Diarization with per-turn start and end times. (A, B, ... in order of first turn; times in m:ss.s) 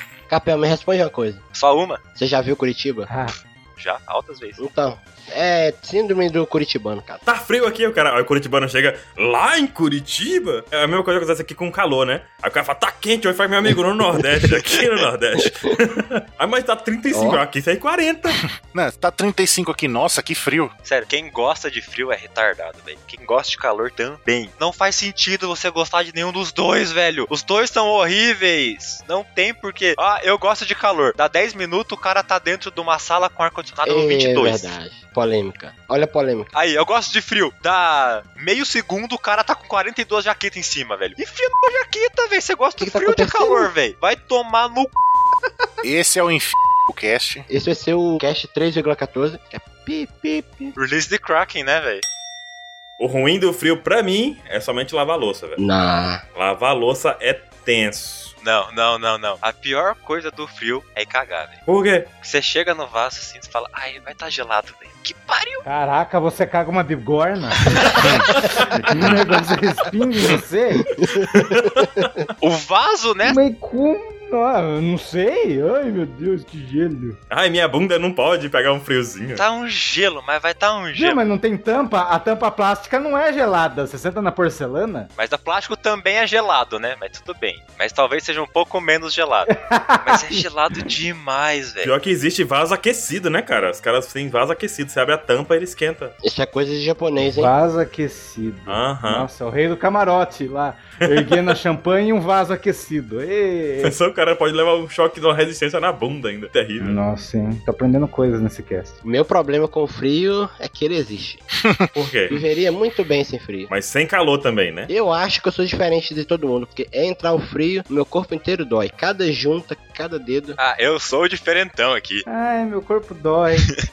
0:00.3-0:01.4 A
0:01.5-0:02.0 B
0:02.1-0:03.1 A
0:03.1-0:03.3 C
0:03.8-0:04.6 B
0:04.6-0:07.2 A
0:07.2-0:18.4 D
0:17.1-0:17.4 A
0:18.6-0:20.7 E
0:20.8-0:34.7 B
0:33.8-0:36.5 A
0:36.5-0:45.0 B
0:42.8-0:43.7 A
0:45.8-0:47.4 E
0:47.5-0:50.7 A
0:50.8-0:52.0 B
0:53.0-0:55.6 D
0:55.6-0:56.2 A
0:56.3-0:58.3 D
0:58.4-1:01.6 B
1:01.7-1:02.1 D
1:02.2-1:05.6 B
1:05.6-1:10.9 C
1:07.9-1:09.1 D
1:10.9-1:12.3 A
1:11.3-1:11.9 D
1:12.4-1:13.4 B
1:13.2-1:17.2 C
1:17.3-1:19.4 D
1:19.3-1:21.2 B
1:20.9-1:25.1 C
1:25.2-1:29.5 B
1:29.5-1:30.4 C
1:30.0-1:31.9 B
1:31.8-1:36.1 D
1:36.2-1:37.5 A
1:37.3-1:43.9 C
1:38.7-1:39.3 D
1:41.0-1:41.4 D
1:43.8-1:47.0 D
1:46.8-1:49.0 C
1:49.0-1:51.4 A
1:51.9-1:52.4 D
1:52.3-1:53.7 A
1:53.7-1:54.9 D
1:54.9-2:00.6 A
2:00.6-2:02.2 B
2:02.3-2:03.7 C